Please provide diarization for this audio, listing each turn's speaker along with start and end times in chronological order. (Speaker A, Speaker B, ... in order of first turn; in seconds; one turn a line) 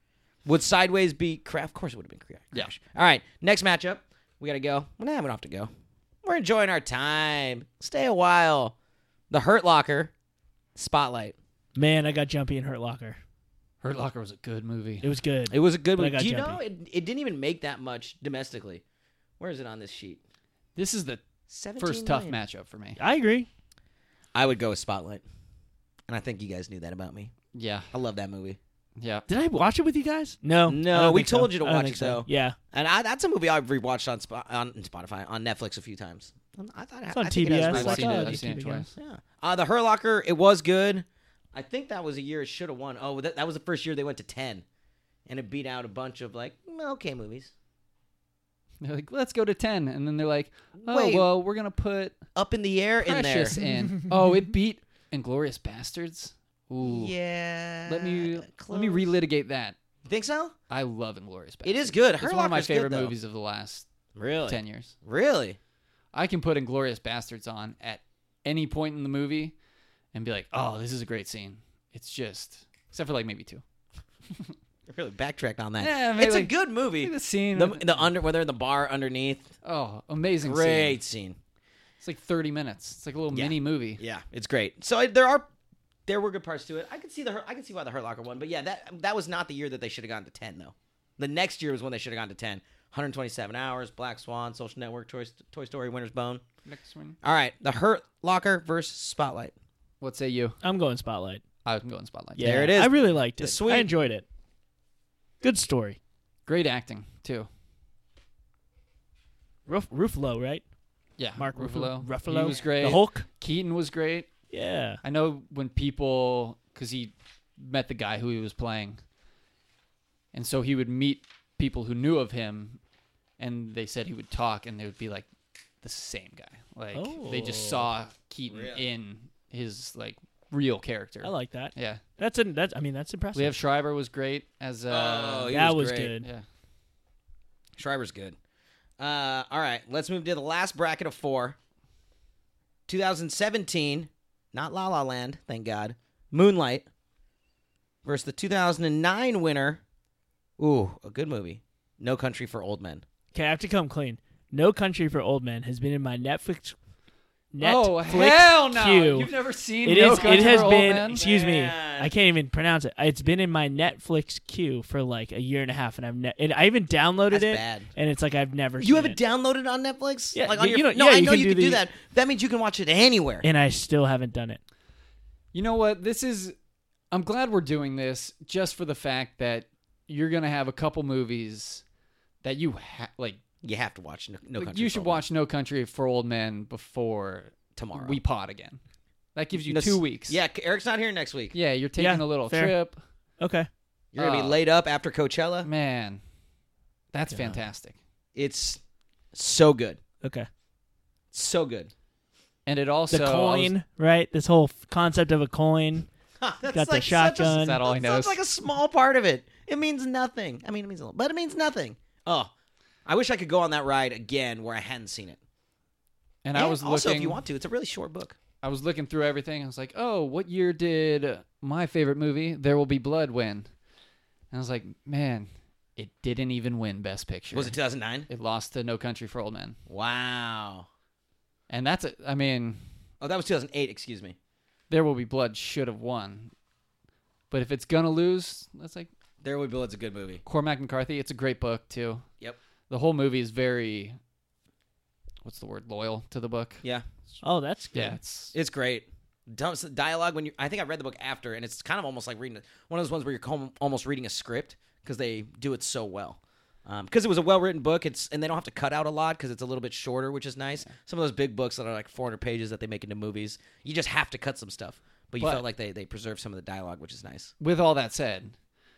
Speaker A: 0.4-5.7
Speaker A: 6.2-8.7
Speaker A: 9.3-10.1
Speaker A: 10.8-11.3
Speaker B: 11.8-13.2
Speaker C: 13.8-15.1
Speaker B: 15.0-16.6
Speaker A: 15.5-18.8
Speaker A: 19.4-20.2
Speaker C: 20.8-21.2
Speaker A: 21.5-22.4
Speaker C: 21.8-23.0
Speaker B: 23.0-23.5
Speaker A: 24.3-25.2
Speaker A: 26.1-27.3
Speaker C: 27.5-27.9
Speaker A: 27.9-28.6
Speaker C: 29.0-29.2
Speaker B: 29.3-32.5
Speaker A: 30.6-38.4
Speaker B: 37.1-38.9
Speaker C: 37.6-38.9
Speaker A: 39.0-44.6
Speaker A: 45.2-47.5
Speaker C: 48.8-52.2
Speaker A: 50.8-51.3
Speaker A: 52.4-53.6
Speaker C: 53.0-57.1
Speaker A: 56.8-59.1
Speaker C: 57.9-59.8
Speaker A: 60.0-60.5
Speaker C: 60.7-63.9
Speaker A: 61.6-63.1
Speaker A: 64.1-65.6
Speaker C: 64.5-64.9
Speaker C: 66.1-69.5
Speaker C: 70.1-73.6
Speaker A: 74.9-79.5
Speaker C: 75.8-78.0
Speaker C: 79.6-81.0
Speaker A: 80.4-81.4
Speaker C: 82.0-84.0
Speaker A: 83.3-85.5
Speaker A: 86.1-96.4
Speaker C: 96.6-97.2
Speaker A: 97.2-99.5
Speaker C: 100.0-100.6
Speaker B: 100.6-101.4
Speaker C: 101.6-102.6
Speaker B: 102.3-104.2
Speaker A: 102.4-103.9
Speaker B: 105.4-106.0
Speaker C: 106.5-107.5
Speaker B: 109.7-110.6
Speaker C: 111.2-114.3
Speaker B: 111.3-113.2
Speaker B: 114.5-115.0
Speaker C: 115.0-119.0
Speaker C: 120.3-122.8
Speaker C: 123.4-125.3
Speaker C: 125.8-132.0
Speaker B: 126.9-127.9
Speaker A: 128.5-128.8
Speaker B: 131.2-133.6
Speaker C: 133.3-135.6
Speaker A: 134.9-136.1
Speaker B: 135.5-136.3
Speaker A: 137.8-138.3
Speaker A: 139.0-141.6
Speaker A: 142.9-146.8
Speaker A: 148.0-149.8
Speaker A: 150.6-153.0
Speaker B: 153.3-156.8
Speaker B: 157.5-159.3
Speaker C: 157.6-161.2
Speaker B: 159.8-169.2
Speaker A: 160.0-162.1
Speaker A: 167.3-167.9
Speaker A: 168.8-173.4
Speaker B: 170.3-171.8
Speaker B: 173.4-174.6
Speaker C: 175.5-176.5
Speaker C: 177.1-181.8
Speaker C: 182.4-183.4
Speaker A: 183.6-185.2
Speaker C: 184.6-188.8
Speaker A: 187.7-188.2
Speaker C: 189.3-190.4
Speaker A: 189.7-191.5
Speaker C: 191.5-193.0
Speaker B: 192.0-192.7
Speaker B: 193.4-193.7
Speaker A: 194.1-195.7
Speaker C: 194.2-194.6
Speaker C: 195.6-196.2
Speaker C: 197.1-197.9
Speaker B: 197.3-197.6
Speaker A: 198.3-198.8
Speaker A: 199.3-200.0
Speaker B: 200.2-200.5
Speaker A: 201.3-201.9
Speaker C: 202.6-203.7
Speaker B: 203.1-206.1
Speaker A: 206.4-212.5
Speaker B: 206.7-207.8
Speaker C: 207.5-208.4
Speaker A: 213.1-215.4
Speaker C: 216.4-217.4
Speaker A: 216.5-218.4
Speaker C: 218.6-223.7
Speaker C: 224.5-227.7
Speaker A: 227.5-228.3
Speaker C: 228.3-229.8
Speaker A: 229.9-230.9
Speaker C: 231.7-232.8
Speaker A: 233.2-234.3
Speaker C: 234.9-236.5
Speaker C: 237.5-239.1
Speaker A: 239.4-240.4
Speaker C: 240.4-242.2
Speaker C: 242.9-244.2
Speaker C: 245.4-246.8
Speaker B: 247.4-248.2
Speaker C: 247.9-248.5
Speaker A: 248.5-267.5
Speaker C: 267.6-268.5